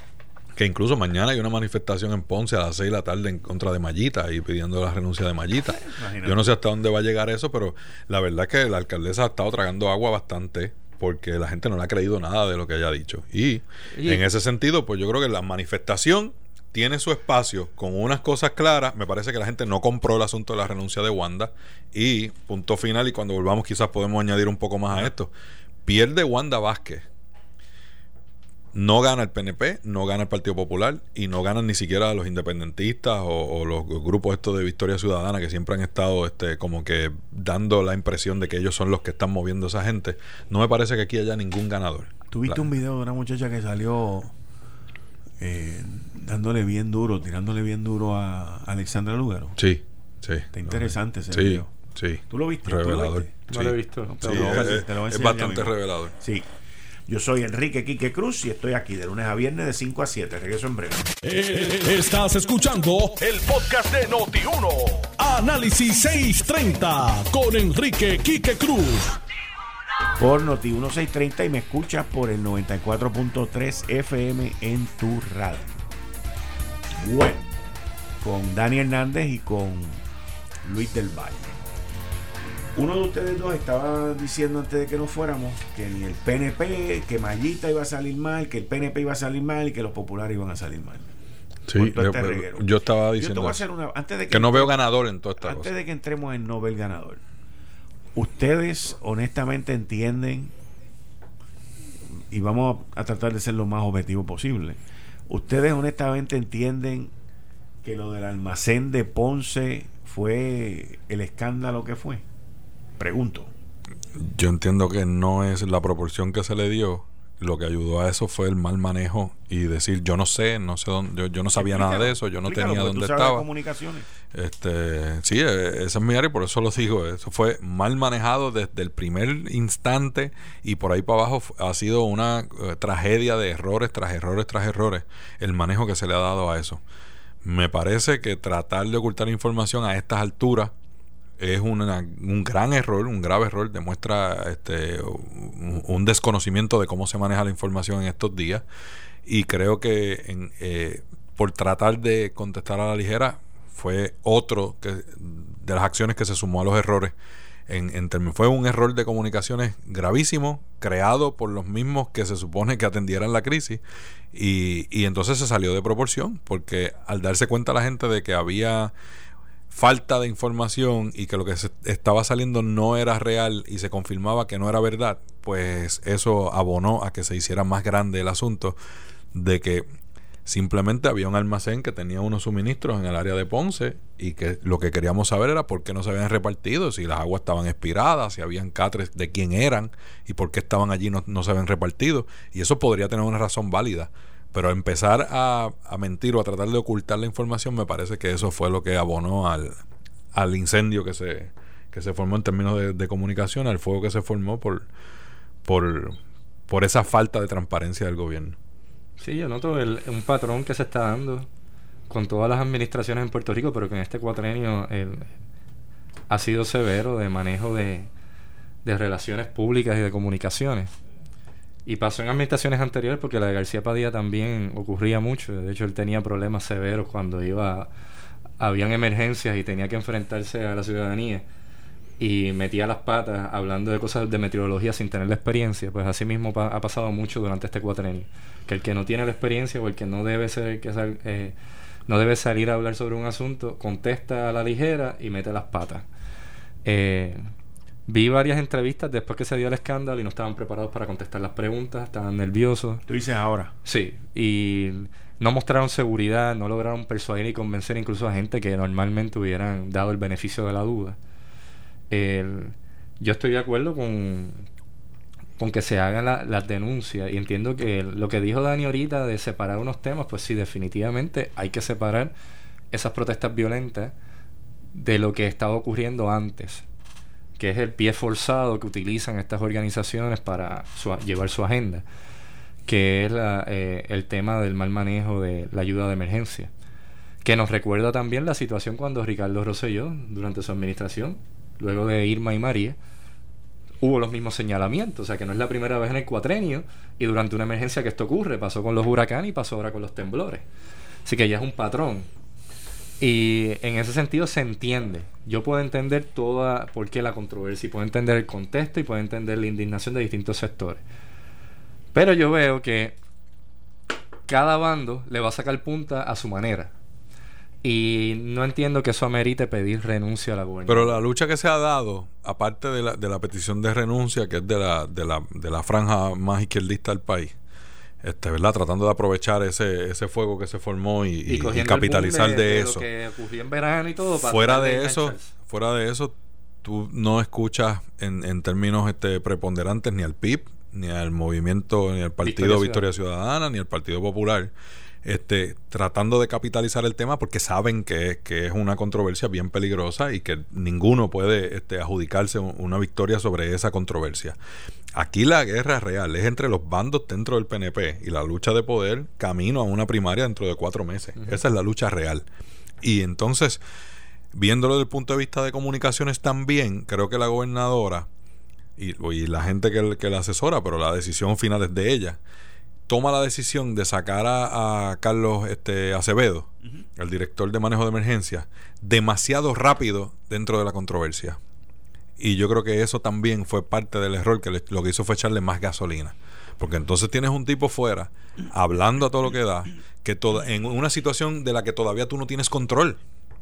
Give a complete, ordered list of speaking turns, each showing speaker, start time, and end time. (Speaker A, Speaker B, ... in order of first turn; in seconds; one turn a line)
Speaker A: 0.6-25.3
Speaker B: 5.7-6.4
Speaker C: 14.0-14.3
Speaker A: 25.9-27.0
Speaker A: 28.7-42.7
Speaker B: 42.3-44.3
Speaker B: 45.4-49.6
Speaker A: 49.6-56.1
Speaker B: 50.5-51.7
Speaker B: 52.3-53.5
Speaker C: 53.5-54.7
Speaker B: 54.0-56.5
Speaker B: 57.1-61.0
Speaker D: 61.2-69.2
Speaker B: 70.2-75.7
Speaker B: 77.0-77.5
Speaker B: 78.2-80.0
Speaker B: 80.6-81.5
Speaker B: 82.8-91.1
Speaker A: 91.7-93.6
Speaker B: 91.8-94.8
Speaker A: 94.3-95.7
Speaker B: 95.4-97.2
Speaker B: 98.2-100.5
Speaker B: 102.3-104.8
Speaker B: 105.3-107.1
Speaker B: 107.8-112.2
Speaker B: 113.0-113.5
Speaker A: 114.2-123.5
Speaker B: 121.5-124.1
Speaker A: 124.3-136.8
Speaker A: 137.4-140.7
Speaker A: 141.4-148.7
Speaker A: 149.2-157.2
Speaker A: 157.7-163.8
Speaker A: 164.3-168.9
Speaker A: 169.7-178.8
Speaker A: 179.3-179.9
Speaker A: 180.4-199.8
Speaker A: 200.3-204.9
Speaker A: 205.7-208.6
Speaker C: 209.2-211.5
Speaker C: 212.1-215.3
Speaker C: 216.3-218.1
Speaker C: 218.8-220.9
Speaker C: 221.9-227.9
Speaker C: 228.6-231.4
Speaker C: 232.2-241.6
Speaker C: 242.1-246.1
Speaker C: 246.8-247.4
Speaker C: 248.1-253.0
Speaker B: 253.1-253.7
Speaker C: 253.8-261.2
Speaker C: 262.1-264.6
Speaker C: 265.6-272.3
Speaker C: 272.9-274.1
Speaker C: 274.9-276.9
Speaker C: 277.6-282.1
Speaker C: 282.9-286.7
Speaker C: 287.4-293.0
Speaker C: 294.0-300.6
Speaker C: 301.2-302.3
Speaker C: 303.2-311.0
Speaker C: 312.1-313.2
Speaker C: 314.5-316.9
Speaker C: 317.8-321.2
Speaker A: 320.9-327.6
Speaker A: 328.2-333.1
Speaker C: 331.5-335.6
Speaker A: 334.4-344.7
Speaker C: 342.4-343.1
Speaker A: 345.2-354.6
Speaker A: 355.2-362.5
Speaker A: 363.0-363.8
Speaker A: 364.5-368.3
Speaker A: 369.0-372.4
Speaker A: 373.1-381.6
Speaker A: 382.4-393.2